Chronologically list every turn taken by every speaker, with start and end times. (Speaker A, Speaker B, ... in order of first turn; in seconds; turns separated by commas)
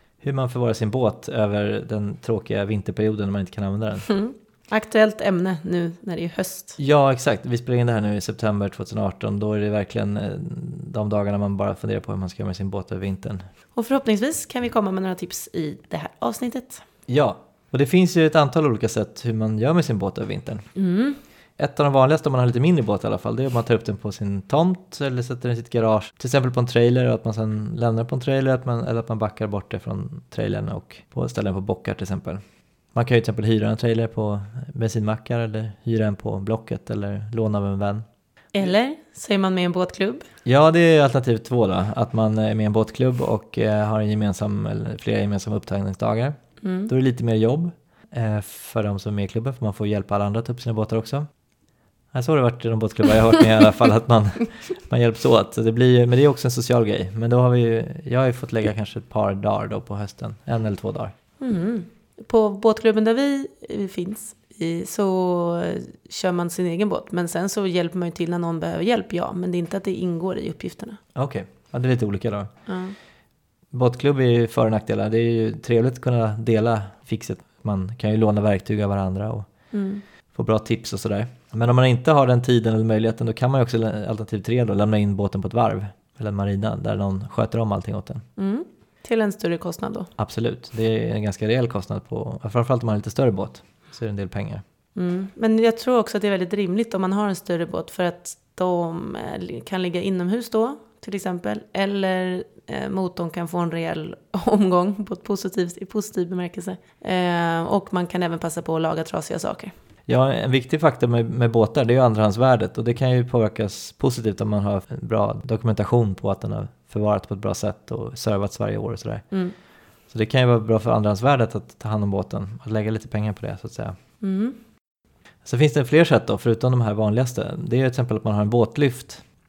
Speaker A: 0.2-4.1, Speaker B: 4.1-6.8, Speaker A: 6.8-13.4, Speaker B: 13.8-16.8, Speaker A: 17.1-20.7, Speaker B: 20.8-21.2, Speaker A: 21.6-32.4, Speaker A: 33.0-38.0, Speaker B: 38.5-40.2, Speaker A: 40.5-46.4, Speaker B: 46.6-46.9, Speaker A: 46.9-51.3, Speaker A: 52.1-61.1, Speaker B: 61.4-71.0, Speaker A: 71.2-72.5, Speaker B: 72.7-72.9, Speaker A: 73.7-79.5, Speaker B: 79.7-80.0, Speaker A: 80.3-88.2, Speaker B: 88.4-90.1, Speaker A: 90.2-94.6, Speaker B: 95.0-109.7, Speaker A: 110.1-119.2, Speaker A: 120.1-124.0, Speaker B: 124.2-124.6, Speaker A: 125.5-129.2